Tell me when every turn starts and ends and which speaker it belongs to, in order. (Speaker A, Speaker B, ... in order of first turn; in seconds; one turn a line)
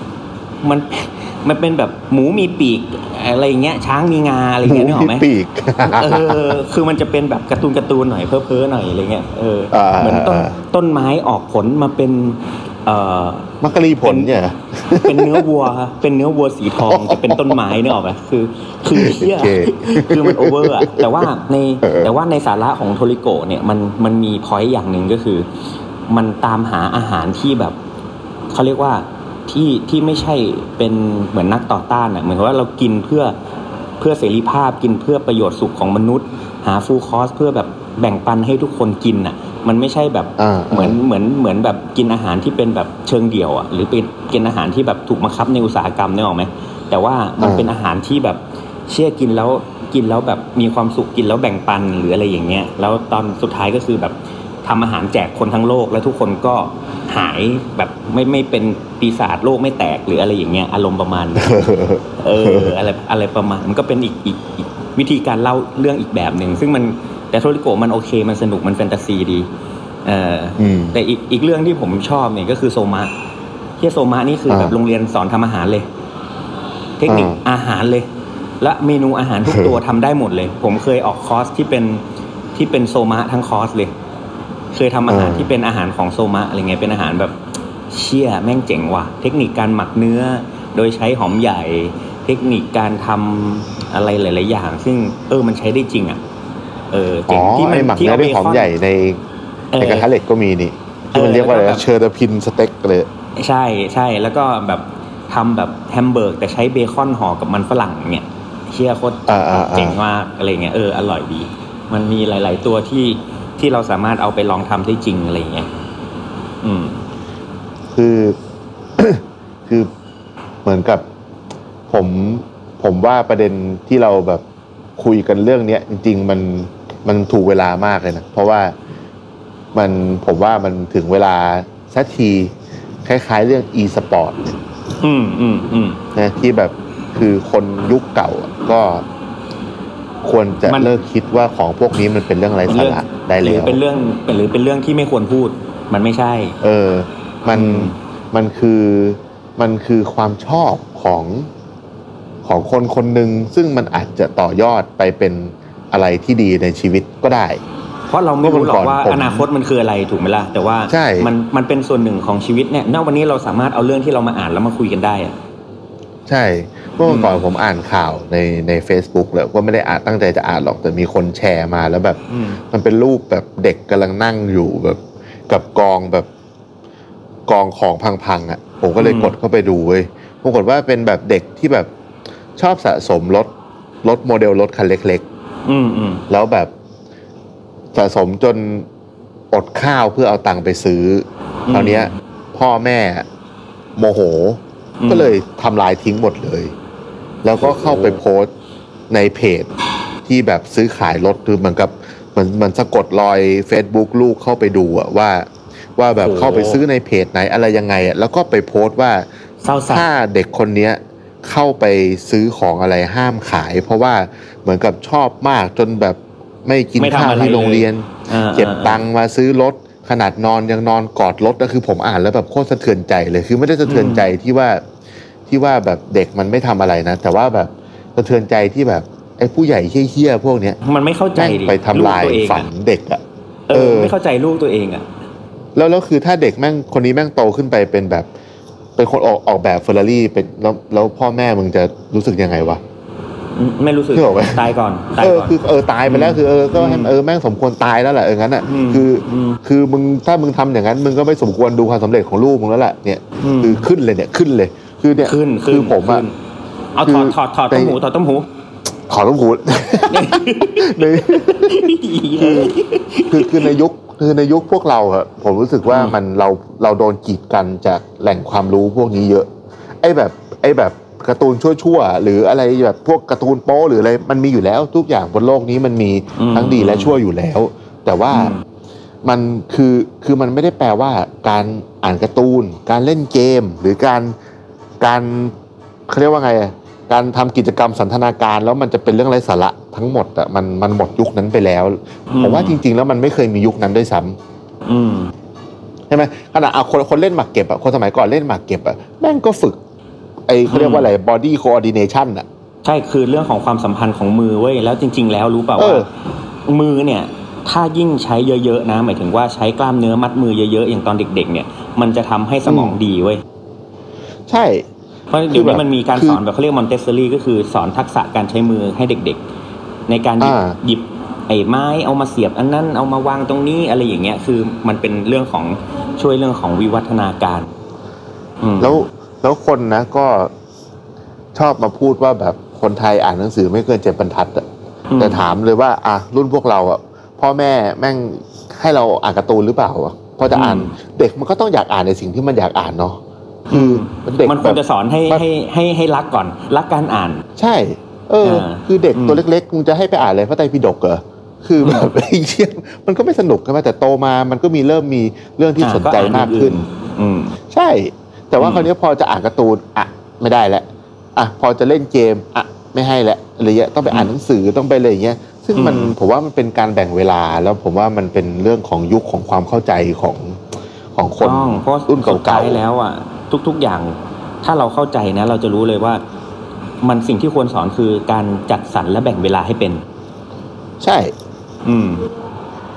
Speaker A: 0.6-5.2
Speaker B: 4.6-6.6
Speaker A: 5.9-14.3
Speaker B: 9.7-10.6
Speaker B: 13.6-15.5
Speaker A: 14.9-25.5
Speaker B: 16.9-17.6
Speaker B: 18.9-21.2
Speaker B: 21.8-22.1
Speaker A: 26.1-27.8
Speaker A: 28.5-33.4
Speaker A: 34.0-61.6
Speaker B: 40.4-41.0
Speaker B: 47.4-47.7
Speaker B: 61.4-62.7
Speaker A: 62.2-69.5
Speaker A: 70.0-73.1
Speaker B: 70.6-71.0
Speaker A: 73.8-75.9
Speaker B: 74.5-74.8
Speaker A: 77.0-78.1
Speaker B: 77.1-77.4
Speaker A: 78.6-82.0
Speaker B: 79.4-79.8
Speaker A: 82.5-83.9
Speaker A: 84.7-87.4
Speaker B: 85.1-85.5
Speaker A: 87.9-96.2
Speaker A: 96.9-98.7
Speaker B: 97.3-99.2
Speaker A: 99.7-100.1
Speaker B: 99.8-103.1
Speaker A: 101.1-101.8
Speaker A: 103.4-115.7
Speaker B: 109.3-110.0
Speaker A: 116.6-117.0
Speaker B: 117.9-118.4
Speaker B: 119.0-119.9
Speaker B: 120.6-121.0
Speaker B: 121.9-124.4
Speaker B: 125.0-128.7
Speaker B: 129.7-132.5
Speaker B: 133.0-134.5
Speaker A: 135.0-136.0
Speaker B: 136.1-139.0
Speaker B: 140.2-143.8
Speaker A: 140.7-140.9
Speaker A: 142.7-146.6
Speaker B: 146.6-151.5
Speaker A: 147.5-148.0
Speaker B: 152.4-157.6
Speaker A: 158.1-165.4
Speaker B: 158.4-159.5
Speaker B: 160.9-161.3
Speaker B: 166.3-176.3
Speaker A: 167.0-167.4
Speaker A: 172.3-172.6
Speaker B: 177.5-181.9
Speaker A: 179.0-179.3
Speaker B: 182.6-183.5
Speaker B: 184.0-185.2
Speaker A: 185.7-186.2
Speaker B: 186.3-186.7
Speaker B: 187.9-188.9
Speaker B: 189.5-193.2
Speaker A: 191.7-192.2
Speaker B: 193.9-196.7
Speaker A: 195.0-195.4
Speaker B: 197.4-198.5
Speaker A: 197.6-198.2
Speaker B: 199.1-199.7
Speaker B: 200.2-209.2
Speaker A: 206.2-206.8
Speaker A: 209.6-210.1
Speaker B: 209.9-224.8
Speaker A: 217.0-219.0
Speaker A: 223.8-224.3
Speaker B: 225.5-230.8
Speaker A: 230.8-232.7
Speaker B: 231.4-234.1
Speaker A: 233.7-235.1
Speaker B: 235.8-238.3
Speaker B: 239.0-242.8
Speaker A: 243.5-245.5
Speaker B: 244.1-244.7
Speaker B: 245.2-256.2
Speaker A: 246.1-247.2
Speaker A: 248.7-249.6
Speaker A: 253.4-253.9
Speaker A: 255.2-256.4
Speaker A: 256.9-258.5
Speaker B: 257.0-258.0
Speaker B: 259.1-262.8
Speaker A: 260.1-263.7
Speaker B: 263.3-269.5
Speaker A: 265.9-266.1
Speaker B: 270.0-278.6
Speaker A: 276.4-277.2
Speaker A: 278.3-278.6
Speaker B: 279.2-284.3
Speaker B: 285.0-285.5
Speaker B: 286.1-294.4
Speaker A: 292.3-292.8
Speaker A: 294.9-295.3
Speaker B: 296.1-299.8
Speaker B: 300.5-302.4
Speaker A: 300.7-301.1
Speaker A: 302.8-306.1
Speaker B: 305.8-306.1
Speaker A: 306.6-313.4
Speaker B: 312.6-313.0
Speaker B: 314.5-314.9
Speaker A: 315.3-319.4
Speaker B: 315.5-316.4
Speaker A: 320.1-327.7
Speaker B: 320.4-320.8
Speaker A: 328.6-329.0
Speaker B: 328.8-330.5
Speaker B: 331.5-334.6
Speaker A: 335.1-335.4
Speaker B: 335.2-345.4
Speaker A: 340.5-340.9
Speaker A: 343.7-347.4
Speaker B: 347.6-356.8
Speaker A: 348.4-349.4
Speaker A: 355.8-357.6
Speaker B: 357.7-370.6
Speaker A: 358.6-358.9
Speaker A: 365.8-366.1
Speaker B: 371.1-372.8
Speaker A: 371.4-376.2
Speaker A: 377.0-380.0
Speaker B: 381.0-381.3
Speaker A: 381.9-382.3